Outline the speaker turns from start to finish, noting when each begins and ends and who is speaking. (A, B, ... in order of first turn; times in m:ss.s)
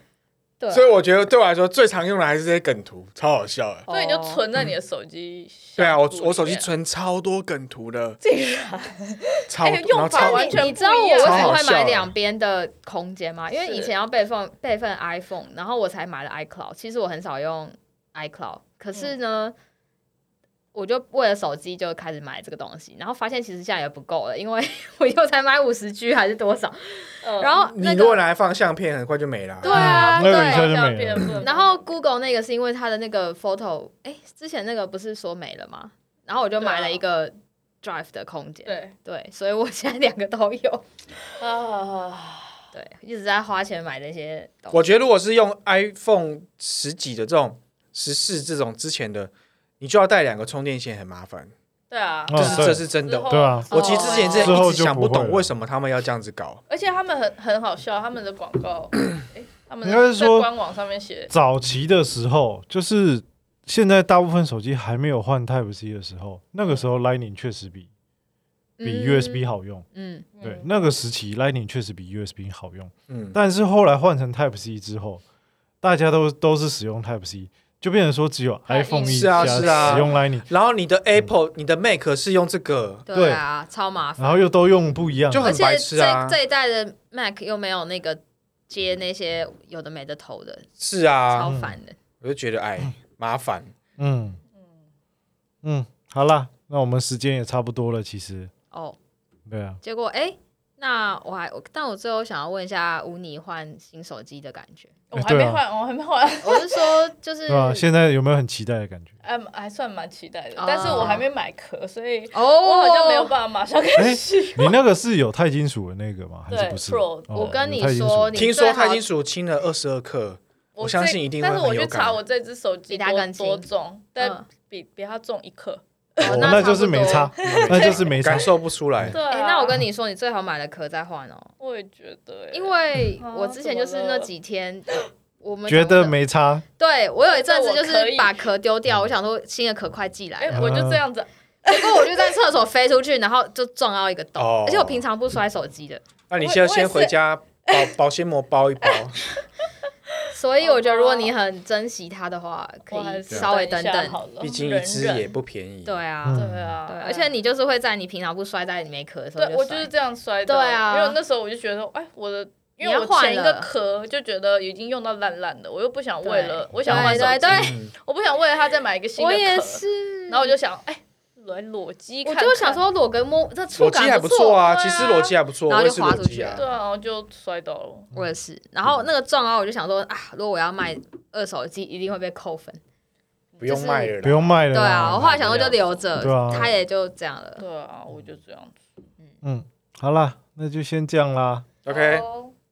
0:00.6-0:00.9 A
0:00.7-0:03.9 B
0:03.9-0:04.4 A
0:03.9-0:06.7 C
0:05.8-0:08.2 B
0:08.2-0:11.6 C
0:09.5-0:12.1 B
0:10.1-0:19.5 A
0:13.6-0:13.9 C
0:20.7-0:28.2 A
0:27.2-0:27.6 C
0:27.6-0:29.7 B
0:29.6-0:30.7 A
0:29.6-0:31.9 C
0:29.7-0:31.3 D
0:31.4-0:40.8 A
0:36.6-0:37.0 C
0:38.6-0:38.9 C
0:41.4-0:42.6 C
0:42.7-0:44.8 A
0:44.7-0:51.5 B
0:51.9-0:54.7 C
0:52.3-0:53.7 D
0:52.3-0:56.6 B
0:53.7-0:54.5 A
0:54.3-0:55.5 D
0:56.7-1:01.3 C
0:59.8-1:00.5 D
1:01.3-1:07.9 D
1:06.6-1:06.9 C
1:08.8-1:10.3 A
1:08.8-1:09.8 D
1:10.4-1:10.9 C
1:10.4-1:15.2 D
1:13.1-1:13.4 B
1:15.8-1:20.4 D
1:18.7-1:20.1 C
1:19.1-1:23.0 B
1:23.1-1:24.5 A
1:23.1-1:23.4 D
1:24.2-1:25.5 D
1:25.3-1:26.4 B
1:25.4-1:30.7 A
1:30.8-1:31.5 B
1:31.3-1:32.0 A
1:31.4-1:31.8 D
1:32.2-1:33.7 B
1:34.0-1:34.4 D
1:35.6-1:38.5 D
1:38.7-1:39.0 A
1:39.4-1:39.8 D
1:39.8-1:44.9 A
1:45.1-1:47.0 C
1:45.2-1:45.6 D
1:46.4-1:47.8 A
1:47.5-1:49.1 D
1:49.2-1:54.8 C
1:50.6-1:51.2 A
1:52.3-1:53.3 A
1:54.0-1:58.5 D
1:56.5-1:57.5 C
1:57.3-1:59.0 A
1:58.3-2:02.2 B
2:00.7-2:06.2 C
2:02.9-2:03.6 A
2:04.2-2:04.4 A
2:06.2-2:07.3 A
2:06.2-2:06.7 B
2:06.2-2:09.1 D
2:06.7-2:08.5 C
2:07.4-2:09.2 B
2:09.1-2:09.8 C
2:09.1-2:11.5 A
2:11.6-2:14.3 C
2:12.5-2:16.2 A
2:15.7-2:16.6 D
2:16.8-2:20.8 A
2:17.3-2:18.5 C
2:20.4-2:22.1 C
2:20.5-2:21.0 D
2:21.6-2:26.0 A
2:24.4-2:25.0 B
2:26.3-2:29.2 B
2:26.4-2:27.9 C
2:28.8-2:29.4 C
2:30.3-2:34.2 A
2:30.6-2:31.3 C
2:32.9-2:35.4 C
2:34.4-2:36.0 B
2:35.9-2:39.9 A
2:36.2-2:36.7 D
2:36.4-2:37.3 C
2:39.4-2:52.8 C
2:40.5-2:41.2 A
2:42.8-2:43.7 A
2:46.2-2:47.8 A
2:46.8-2:47.9 B
2:49.2-2:50.5 A
2:52.2-2:54.8 A
2:53.8-2:56.6 B
2:54.7-2:55.4 C
2:55.7-2:56.6 A
2:56.5-2:58.1 C
2:58.1-3:02.8 A
3:03.6-3:04.6 B
3:03.6-3:04.1 A
3:04.2-3:06.7 D
3:04.7-3:07.6 A
3:05.2-3:05.6 B
3:05.4-3:05.8 C
3:07.6-3:08.8 C
3:09.4-3:11.6 D
3:11.8-3:12.3 B
3:11.9-3:12.5 A